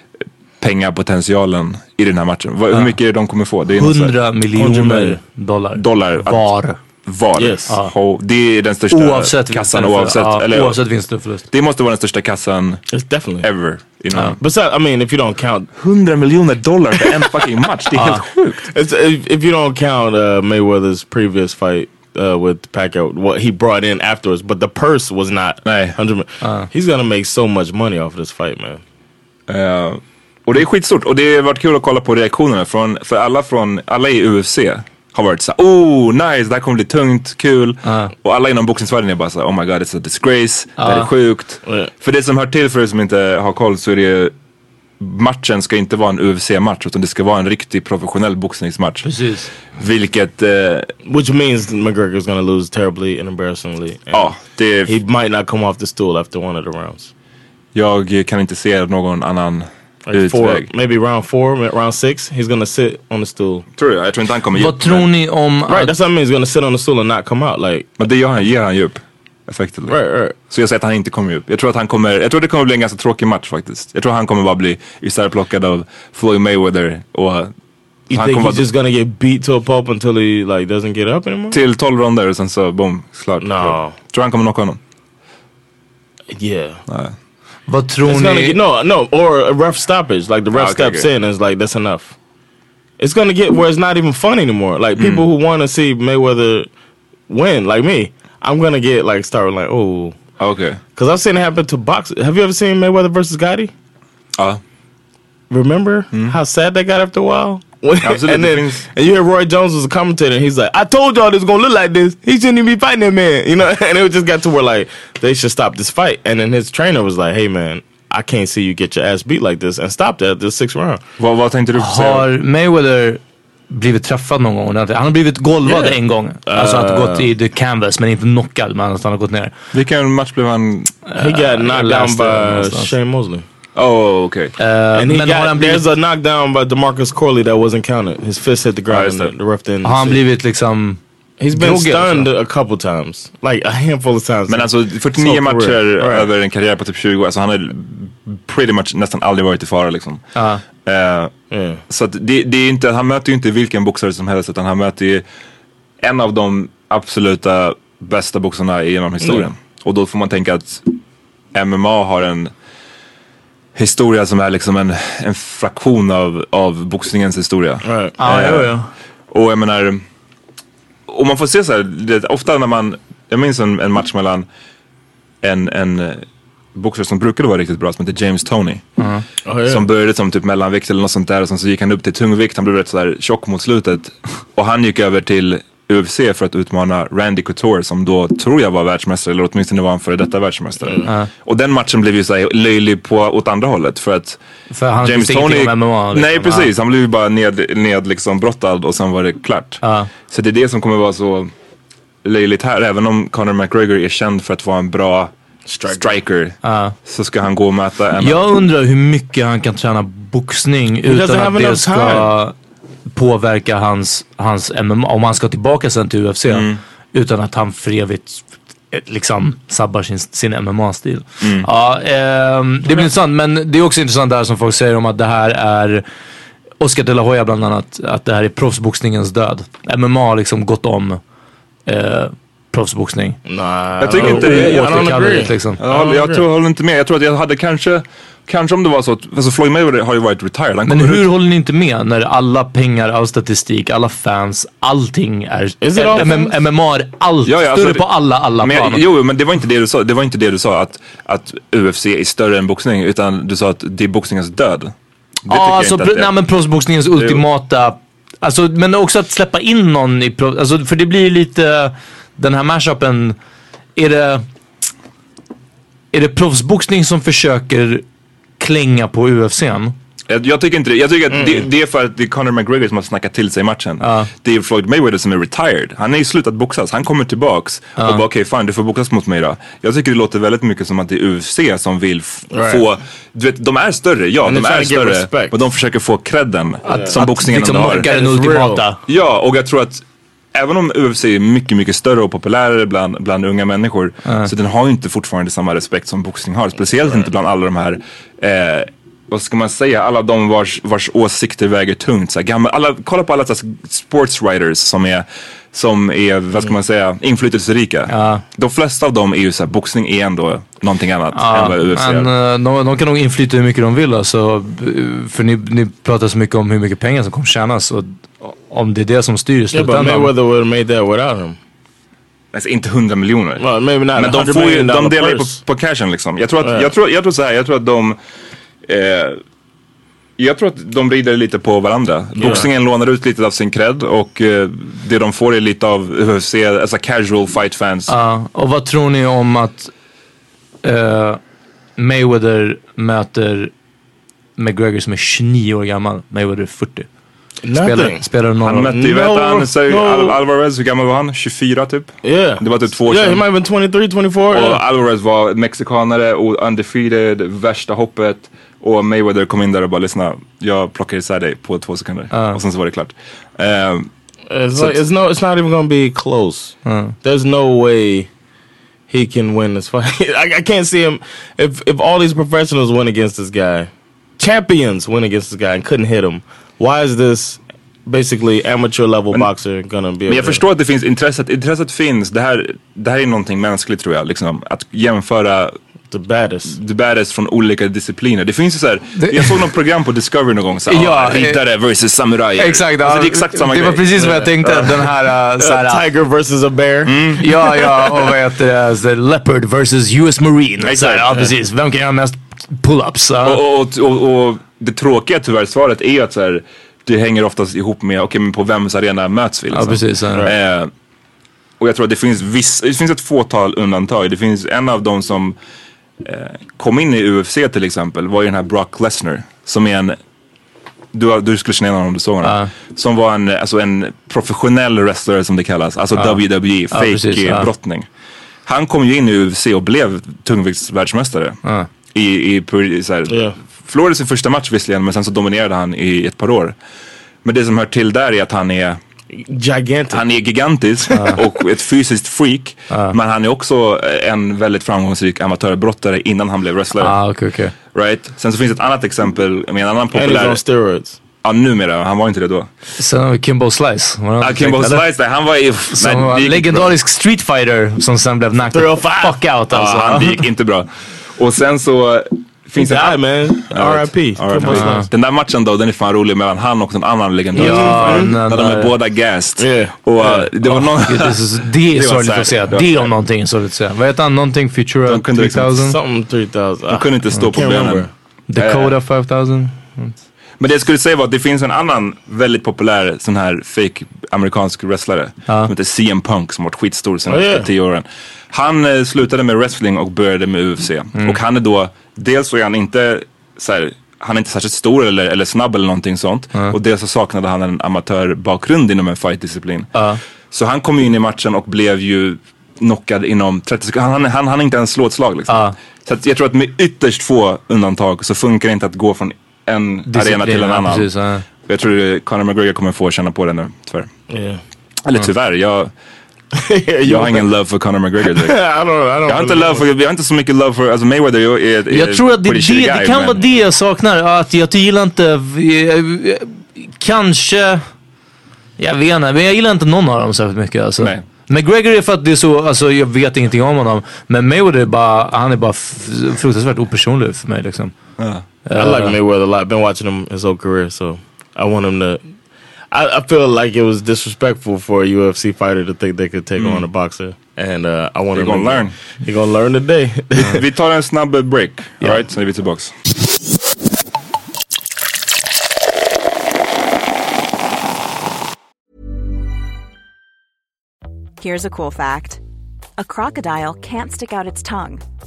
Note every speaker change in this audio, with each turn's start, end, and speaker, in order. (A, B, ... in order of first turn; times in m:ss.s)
0:00.6-0:04.2 A
0:03.7-0:06.8 B
0:04.5-0:05.2 C
0:05.8-0:06.5 A
0:07.0-0:10.8 A
0:07.4-0:07.7 C
0:08.9-0:11.4 B
0:11.5-0:12.8 A
0:12.9-0:13.5 C
0:13.4-0:14.4 A
0:14.4-0:15.7 C
0:15.8-0:18.6 A
0:18.0-0:18.2 B
0:18.6-0:28.8 C
0:25.6-0:26.0 A
0:26.4-0:26.7 B
0:29.5-0:44.3 A
0:37.8-0:38.1 B
0:40.8-0:41.1 B
0:45.0-0:50.9 A
0:49.0-0:49.5 B
0:51.0-0:57.1 C
0:54.1-0:54.9 A
0:57.7-1:00.7 A
1:00.0-1:03.6 C
1:03.8-1:05.0 A
1:04.5-1:05.9 B
1:05.7-1:07.9 C
1:08.0-1:17.5 A
1:09.9-1:10.4 C
1:18.1-1:18.6 A
1:18.1-1:21.6 C
1:21.5-1:24.8 A
1:23.4-1:24.0 C
1:26.3-1:26.8 C
1:26.9-1:27.1 A
1:27.7-1:28.6 B
1:28.0-1:32.1 C
1:30.5-1:31.1 A
1:33.0-1:36.7 C
1:35.0-1:35.2 A
1:37.3-1:40.2 C
1:40.4-1:40.8 A
1:41.0-1:43.7 C
1:45.5-2:01.0 C
1:48.0-1:48.8 A
2:01.2-2:02.3 A
2:01.7-2:03.2 B
2:03.7-2:09.5 B
2:05.6-2:07.3 C
2:09.7-2:10.9 A
2:11.0-2:12.9 B
2:11.2-2:13.4 C
2:13.7-2:14.5 A
2:14.6-2:15.8 B
2:14.9-2:20.2 C
2:18.9-2:19.3 A
2:19.8-2:21.0 B
2:21.4-2:26.3 C
2:21.5-2:22.3 B
2:24.5-2:30.2 A
2:30.3-2:30.6 B
2:30.8-2:31.3 A
2:31.5-2:31.8 C
2:31.9-2:35.2 A
2:36.0-2:40.9 A
2:39.2-2:39.5 C
2:41.5-2:42.5 A
2:43.7-2:48.8 A
2:47.8-2:48.1 C
2:48.2-2:48.9 B
2:49.3-2:50.0 A
2:51.1-2:54.4 A
2:55.4-2:58.8 A
2:59.0-2:59.2 B
2:59.4-2:59.9 C
2:59.6-3:14.4 A
3:14.7-3:16.7 B
3:15.0-3:21.5 A
3:19.8-3:20.1 B
3:22.2-3:25.3 A
3:25.6-3:26.2 C
3:25.9-3:28.5 A
3:26.6-3:27.0 B
3:28.2-3:32.5 B
3:31.0-3:32.3 C
3:33.1-3:46.0 B
3:36.5-3:36.8 A
3:41.4-3:41.7 A
3:46.8-3:51.2 B
3:51.9-3:53.4 B
3:53.4-3:56.4 C
3:54.0-4:01.3 A
3:54.1-3:55.8 B
4:00.9-4:09.0 B
4:05.8-4:06.5 C
4:07.4-4:08.1 A
4:08.6-4:14.9 A
4:15.4-4:16.3 A
4:15.5-4:23.4 B
4:17.2-4:17.4 A
4:24.0-4:24.4 B
4:26.1-4:28.0 B
4:28.6-4:29.9 B
4:30.3-4:48.1 A
4:31.3-4:31.7 C
4:34.0-4:34.3 B
4:42.5-4:42.8 C
4:44.4-4:45.6 C
4:46.8-4:48.8 C
4:46.8-4:49.0 B
4:49.1-4:50.0 A
4:50.5-5:12.3 A
5:08.1-5:08.4 B
5:11.3-5:20.3 B
5:19.7-5:21.6 C
5:22.5-5:28.2 A
5:23.6-5:25.6 C
5:26.6-5:26.9 C
5:28.8-5:29.4 A
5:30.4-5:38.1 A
5:32.4-5:32.7 C
5:38.1-5:39.9 B
5:40.8-5:41.4 B
5:42.0-5:43.7 B
5:44.6-5:47.1 B
5:47.6-5:48.3 C
5:47.7-5:49.0 B
5:48.6-5:53.4 A
5:48.9-5:50.4 C
5:52.2-5:54.8 C
5:54.5-6:04.1 A
6:02.3-6:02.6 B
6:04.5-6:08.3 C
6:06.8-6:07.1 B
6:09.1-6:20.6 C
6:20.3-6:25.8 A
6:26.1-6:26.8 C
6:26.7-6:34.1 A
6:29.2-6:29.6 B
6:30.9-6:31.6 B
6:32.6-6:36.0 B
6:34.2-6:34.9 C
6:35.6-6:37.6 C
6:37.0-6:37.5 A
6:37.4-6:43.6 B
6:40.8-6:41.5 A
6:43.4-6:50.9 A
6:49.7-6:50.5 B
6:51.8-6:55.6 A
6:56.2-7:00.2 A
7:01.1-7:08.1 A
7:02.4-7:02.7 B
7:06.9-7:07.7 B
7:08.6-7:11.6 A
7:12.1-7:16.8 A
7:13.3-7:13.6 C
7:17.4-7:19.0 A
7:19.3-7:20.2 C
7:20.1-7:27.2 A
7:21.1-7:21.4 B
7:22.9-7:23.2 B
7:27.0-7:27.7 B
7:27.9-7:30.6 A
7:30.1-7:31.2 C
7:31.4-7:32.7 A
7:33.0-7:35.0 B
7:34.4-7:36.9 A
7:35.9-7:40.4 B
7:38.7-7:39.5 C
7:39.7-7:53.1 A
7:42.8-7:45.0 C
7:44.6-7:45.1 B
7:47.5-7:48.4 C
7:47.6-7:48.9 B
7:49.6-7:50.5 C
7:50.6-7:56.0 B
7:55.0-7:55.9 A
7:55.8-7:58.1 C
7:56.9-7:59.0 A
7:58.5-8:00.1 B
8:00.6-8:19.9 A
8:07.2-8:07.7 C
8:19.9-8:20.2 B
8:20.5-8:31.1 A
8:25.5-8:25.7 B
8:30.1-8:31.4 B
8:31.6-8:34.1 A
8:34.3-8:34.6 C
8:35.0-8:35.9 A
8:36.5-8:37.5 C
8:37.0-8:38.6 A
8:38.2-8:39.9 C
8:39.2-8:43.4 A
8:41.9-8:47.8 B
8:48.8-8:57.9 B
8:51.0-8:51.2 A
8:58.2-8:58.4 A
8:58.6-8:59.2 B
8:58.7-9:02.2 C
9:02.9-9:10.6 C
9:06.6-9:06.8 A
9:08.3-9:08.9 A
9:10.4-9:12.9 A
9:21.4-9:22.4 D
9:23.0-9:25.0 D